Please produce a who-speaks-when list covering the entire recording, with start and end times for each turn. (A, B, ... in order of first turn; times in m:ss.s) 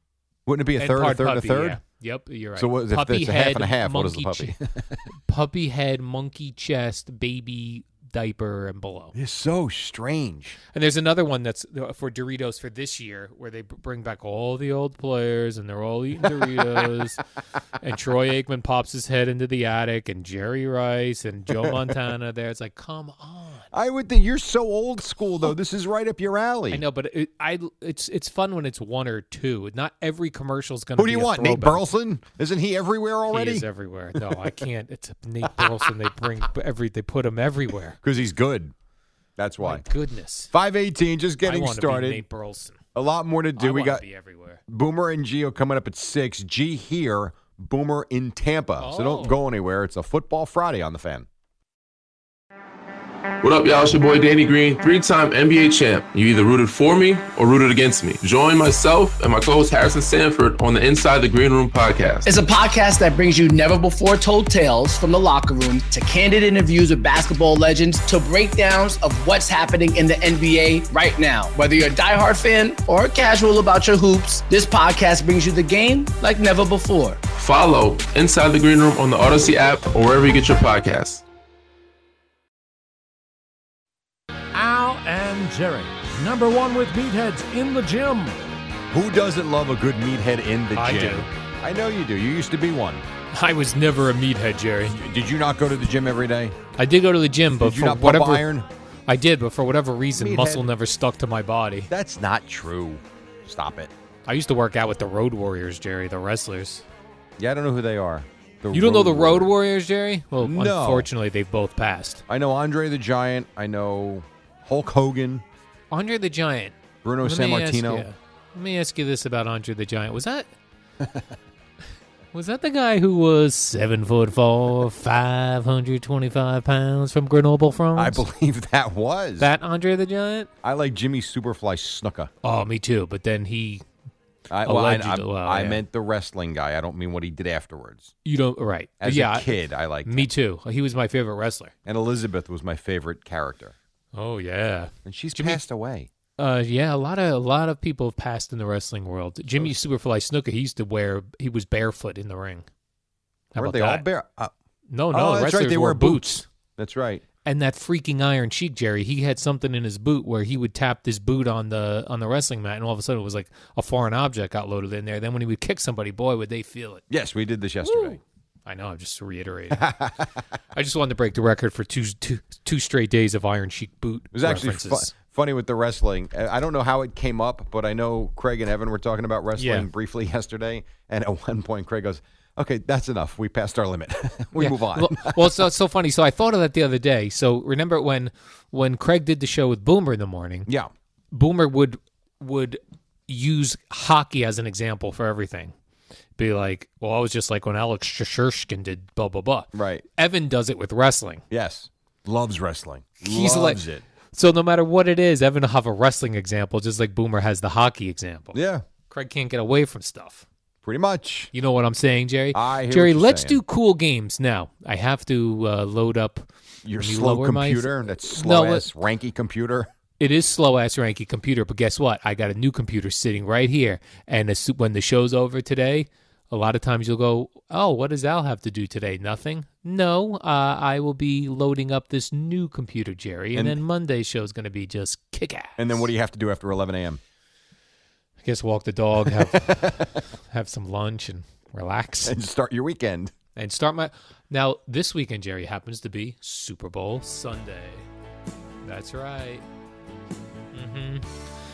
0:00.5-0:01.8 A
0:00.8-0:04.6 B
0:02.6-0:05.0 A
0:05.1-0:09.2 B
0:09.1-0:10.6 A
0:10.7-0:17.2 B
0:16.3-0:16.8 A
0:17.8-0:23.7 B
0:23.7-0:26.8 A
0:26.7-0:31.8 B
0:31.0-0:33.7 A
0:33.3-0:38.0 B
0:34.2-0:34.5 A
0:35.4-0:35.8 A
0:38.0-0:38.7 A
0:39.4-0:39.8 A
0:39.6-0:40.5 B
0:40.5-0:42.2 A
0:41.4-0:42.8 B
0:43.0-0:44.0 A
0:43.6-0:44.6 B
0:44.7-0:51.3 A
0:48.8-0:49.4 B
0:53.4-1:02.3 C
1:02.2-1:17.2 D
1:17.4-1:21.2 C
1:24.5-1:28.4 E
1:28.9-1:33.0 A
1:30.8-1:31.3 B
1:33.3-1:35.0 B
1:34.9-1:36.6 A
1:36.8-1:38.5 B
1:37.5-1:38.7 A
1:39.1-1:41.9 B
1:40.2-1:40.7 A
1:41.9-1:43.9 A
1:44.3-1:46.8 B
1:47.4-1:49.5 A
1:48.7-1:52.2 B
1:50.4-1:51.1 A
1:52.3-1:55.4 A
1:55.9-2:00.5 B
1:57.0-1:58.1 A
2:02.3-2:08.2 B
2:08.0-2:09.5 A
2:09.4-2:10.5 B
2:10.6-2:12.3 A
2:12.4-2:13.8 B
2:14.5-2:18.1 A
2:14.6-2:15.8 B
2:18.2-2:21.7 B
2:19.0-2:20.3 A
2:21.8-2:23.8 A
2:24.2-2:25.6 B
2:25.0-2:26.1 A
2:26.4-2:32.7 B
2:33.5-2:34.1 B
2:33.6-2:34.5 A
2:34.9-2:36.5 B
2:35.1-2:37.2 A
2:37.4-2:47.0 B
2:47.1-2:48.2 A
2:47.8-2:49.9 B
2:49.7-2:50.4 A
2:50.7-2:55.1 B
2:54.3-3:05.6 A
2:59.6-2:59.9 B
3:04.6-3:10.7 B
3:11.3-3:15.7 B
3:16.4-3:21.4 B
3:19.7-3:20.0 A
3:21.5-3:24.0 A
3:23.2-3:23.8 B
3:24.3-3:28.6 B
3:28.5-3:28.8 A
3:29.1-3:30.5 B
3:30.8-3:31.5 A
3:31.5-3:38.9 B
3:32.5-3:33.6 A
3:36.8-3:39.9 A
3:40.2-3:56.1 B
3:53.6-3:53.8 A
3:55.8-3:57.2 A
3:58.4-4:02.4 B
3:59.3-4:00.1 A
4:02.2-4:03.3 A
4:03.6-4:08.0 B
4:08.8-4:09.6 B
4:10.7-4:11.4 B